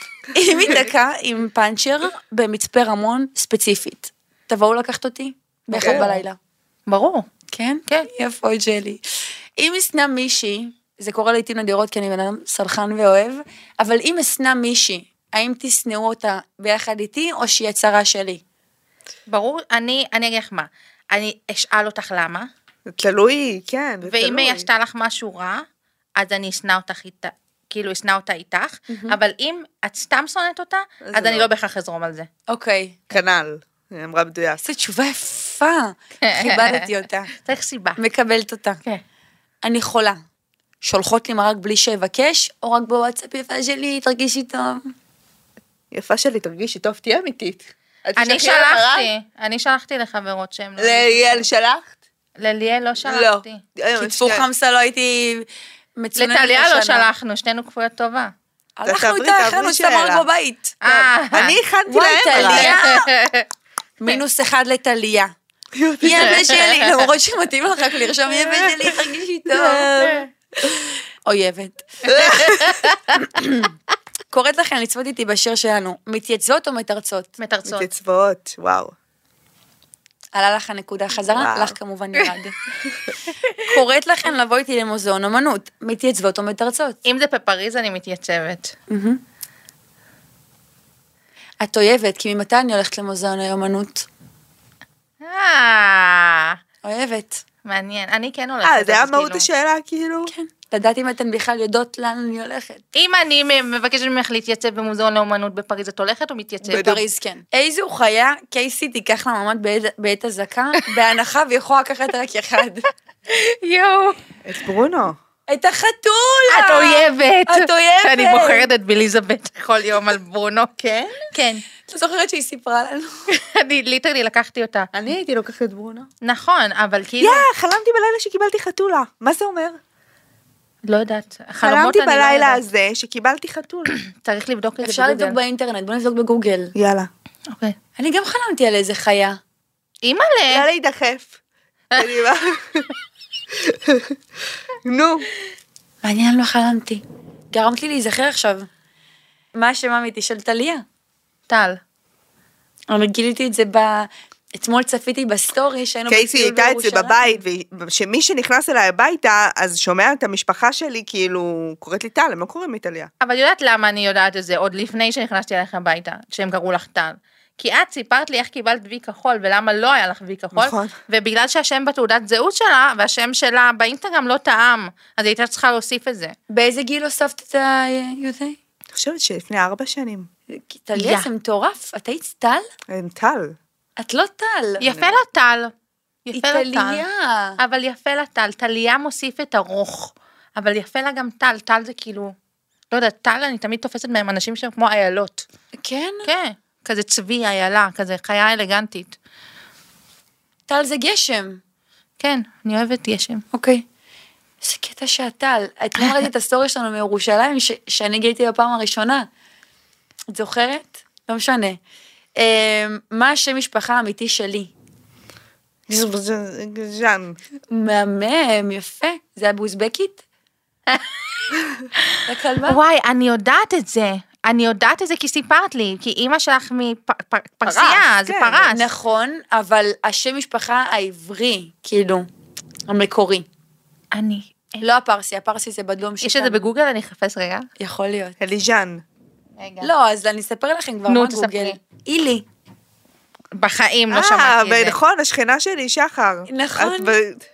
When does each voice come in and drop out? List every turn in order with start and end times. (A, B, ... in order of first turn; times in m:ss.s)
0:00.3-0:06.4 A
0:05.7-0:06.1 B
0:05.7-0:06.1 C
0:06.9-0:07.3 C
0:07.5-0:09.0 A
0:09.6-0:18.4 A
0:19.3-0:22.5 C
0:22.9-0:24.7 B
0:24.0-0:25.6 C
0:26.2-0:32.3 C
0:28.9-0:29.2 A
0:31.0-0:31.5 B
0:32.5-0:33.0 A
0:33.1-0:34.6 B
0:34.6-0:37.3 A
0:36.2-0:38.0 C
0:38.0-0:38.8 A
0:39.6-0:40.2 A
0:40.8-0:44.9 A
0:45.9-0:49.1 B
0:48.2-0:51.4 C
0:50.8-0:51.9 B
0:52.4-0:53.6 C
0:53.0-0:54.4 B
0:54.0-0:57.1 A
0:56.2-0:58.3 C
0:58.8-1:01.0 A
0:58.8-1:00.2 B
1:00.8-1:01.6 C
1:01.3-1:02.7 B
1:01.8-1:03.1 A
1:02.3-1:03.4 C
1:04.0-1:05.3 A
1:05.8-1:06.8 B
1:06.0-1:10.2 A
1:06.3-1:06.7 C
1:08.5-1:10.9 B
1:11.2-1:12.5 A
1:12.0-1:12.8 B
1:12.4-1:13.0 C
1:13.1-1:13.7 A
1:14.3-1:17.3 A
1:17.4-1:17.9 C
1:17.6-1:18.9 B
1:20.3-1:22.6 A
1:21.3-1:21.8 B
1:23.6-1:27.0 A
1:27.0-1:28.7 C
1:28.9-1:29.2 A
1:31.6-1:34.1 A
1:35.2-1:36.6 C
1:36.8-1:37.4 A
1:37.6-1:39.4 C
1:38.6-1:40.3 B
1:40.3-1:42.8 A
1:42.9-1:47.0 C
1:46.6-1:52.9 A
1:46.7-1:47.0 B
1:53.3-1:54.2 C
1:54.4-1:55.2 B
1:55.5-1:58.7 A
1:56.5-2:00.7 C
2:00.8-2:01.2 B
2:01.3-2:01.6 C
2:01.8-2:03.2 A
2:03.3-2:04.9 C
2:04.9-2:06.1 B
2:06.2-2:07.4 C
2:07.2-2:09.8 B
2:10.8-2:12.6 C
2:11.6-2:13.9 B
2:14.0-2:15.4 C
2:14.8-2:16.7 A
2:16.7-2:17.1 B
2:17.5-2:17.8 C
2:18.0-2:19.4 A
2:20.0-2:20.6 C
2:20.5-2:21.3 B
2:22.0-2:22.9 B
2:23.6-2:24.1 B
2:24.8-2:25.3 B
2:26.0-2:28.7 A
2:29.5-2:30.8 A
2:31.5-2:31.8 C
2:32.9-2:37.4 A
2:36.1-2:43.1 B
2:43.2-2:56.3 C
2:50.5-2:50.9 B
2:56.5-2:58.6 A
2:58.9-3:00.3 B
3:00.5-3:02.7 A
3:01.0-3:01.3 C
3:02.9-3:03.5 B
3:04.0-3:04.8 A
3:04.8-3:05.7 C
3:04.9-3:05.2 B
3:06.2-3:07.0 C
3:06.3-3:07.6 A
3:07.6-3:12.3 C
3:12.9-3:15.4 C
3:15.7-3:16.3 A
3:16.2-3:19.2 C
3:20.7-3:21.6 A
3:22.2-3:23.4 C
3:23.5-3:23.8 A
3:24.6-3:29.3 A
3:30.3-3:31.8 A
3:32.4-3:34.7 A
3:35.9-3:37.4 B
3:37.7-3:40.2 A
3:40.9-3:41.2 C
3:42.1-3:48.9 C
3:42.3-3:42.8 A
3:47.6-3:48.7 B
3:48.7-3:52.3 A
3:52.9-3:53.5 A
3:54.1-3:54.8 C
3:54.8-3:56.7 A
3:56.2-3:57.7 C
3:57.8-3:58.4 A
3:58.4-3:59.0 B
3:59.6-3:59.9 C
3:59.8-4:02.4 A
4:01.1-4:01.8 C
4:03.5-4:05.0 C
4:04.1-4:07.4 B
4:06.5-4:07.2 A